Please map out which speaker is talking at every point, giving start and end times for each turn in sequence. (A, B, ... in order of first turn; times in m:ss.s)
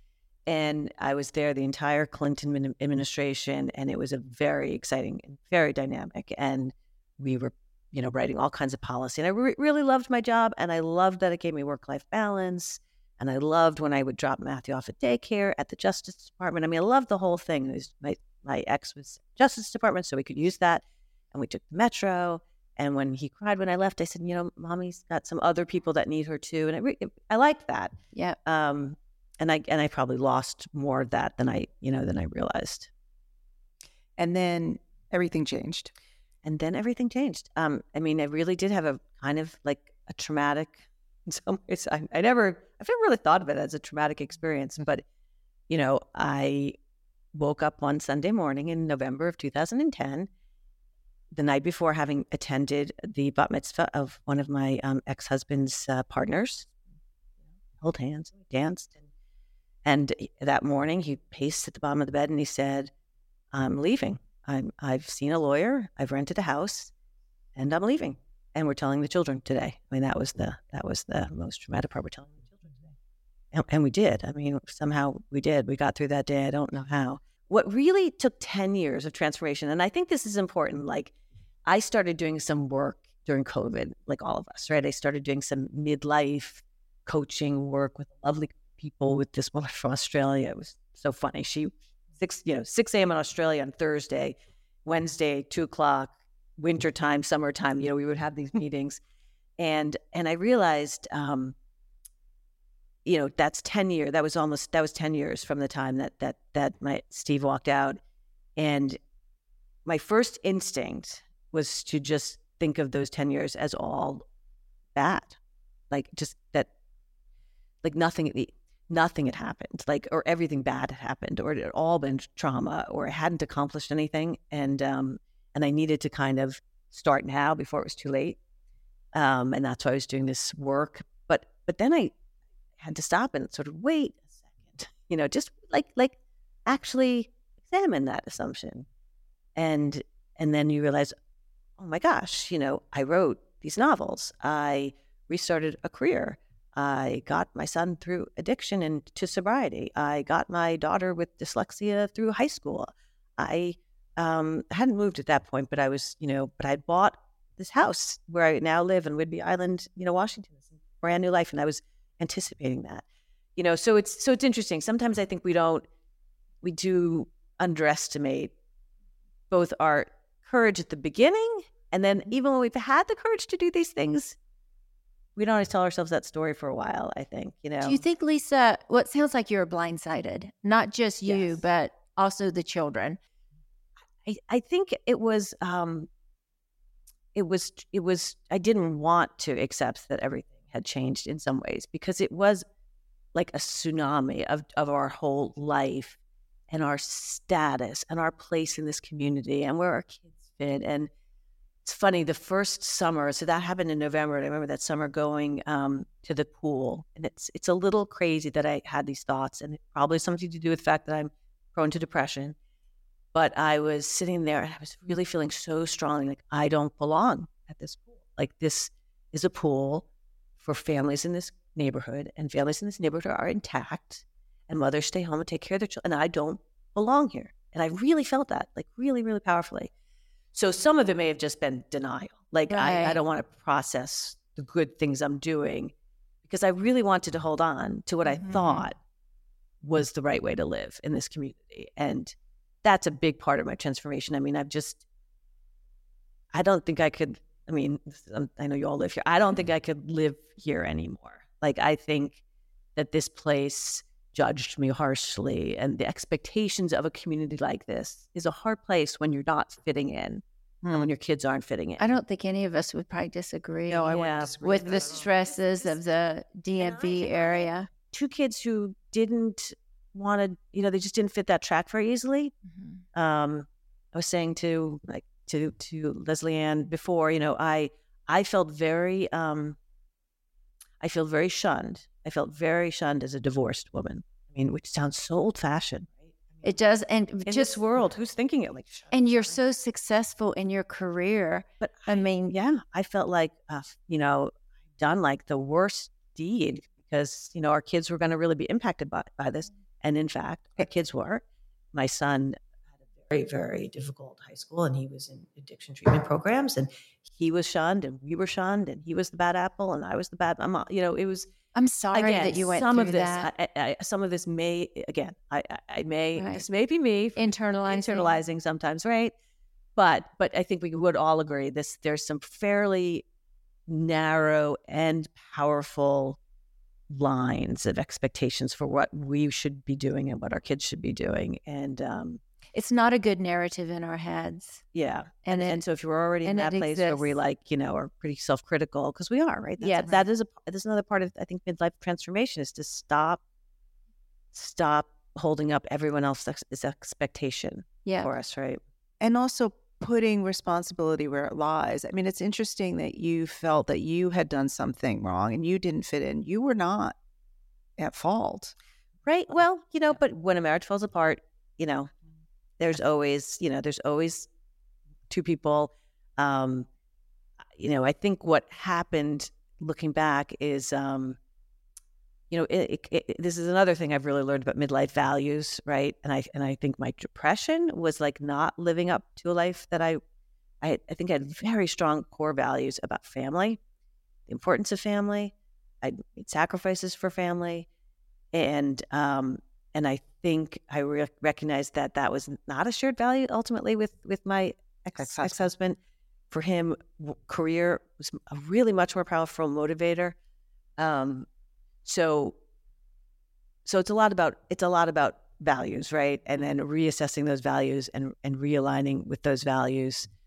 0:00.5-0:27.9 A
0:28.1-0:28.4 B
0:28.4-0:32.9 A
0:34.2-0:35.9 C
0:36.4-0:45.0 A
0:45.7-0:46.8 A
0:47.3-0:50.3 A
0:51.3-0:56.7 A
0:57.8-0:59.0 A
0:59.8-1:02.9 A
1:03.5-1:06.9 A
1:07.6-1:12.9 A
1:13.5-1:21.1 A
1:21.6-1:39.0 A
1:39.6-1:41.5 A
1:43.0-1:48.0 A
1:48.6-1:49.0 A
1:49.8-1:54.2 A
1:54.9-1:55.4 A
1:55.9-1:56.7 A
1:57.8-2:08.4 A
2:09.1-2:12.1 A
2:12.8-2:18.9 A
2:19.6-2:21.1 A
2:21.8-2:43.0 A
2:43.6-2:45.8 A
2:46.6-2:48.5 A
2:49.5-2:54.4 A
2:55.4-2:58.0 A
2:57.8-3:03.2 B
3:01.2-3:01.6 A
3:04.2-3:06.1 A
3:07.3-3:12.6 A
3:13.3-3:16.2 A
3:16.7-3:21.1 A
3:21.8-3:32.6 A
3:33.3-3:40.0 A
3:40.6-3:49.9 A
3:50.5-3:55.9 A
3:52.7-3:53.2 B
3:56.4-3:59.0 A
3:58.2-3:58.9 B
3:59.8-4:05.0 A
4:06.5-4:12.4 A
4:12.9-4:22.0 A
4:22.0-4:27.9 B
4:23.9-4:25.0 C
4:23.9-4:26.0 A
4:26.8-4:32.5 A
4:33.1-4:39.8 A
4:41.0-4:46.7 A
4:46.6-4:47.8 B
4:47.4-4:49.6 A
4:49.1-4:52.5 B
4:51.8-5:02.6 A
5:03.3-5:11.5 A
5:11.7-5:13.5 B
5:12.1-5:19.3 A
5:16.4-5:16.6 B
5:17.4-5:18.3 B
5:20.0-5:23.2 A
5:23.9-5:26.4 A
5:27.1-5:32.4 A
5:32.7-5:34.8 B
5:34.9-5:43.4 A
5:35.4-5:35.8 B
5:36.4-5:37.3 B
5:39.8-5:40.2 B
5:44.5-5:48.8 A
5:48.0-5:48.3 B
5:49.2-5:57.2 C
5:58.0-5:58.7 C
5:59.2-6:02.1 A
6:02.8-6:04.5 A
6:05.3-6:06.9 A
6:07.8-6:11.4 A
6:12.5-6:20.2 A
6:20.8-6:23.8 A
6:24.5-6:27.9 A
6:28.5-6:36.0 A
6:35.2-6:35.7 C
6:36.5-6:40.4 A
6:41.0-6:41.5 A
6:42.0-6:42.6 A
6:43.8-6:50.3 A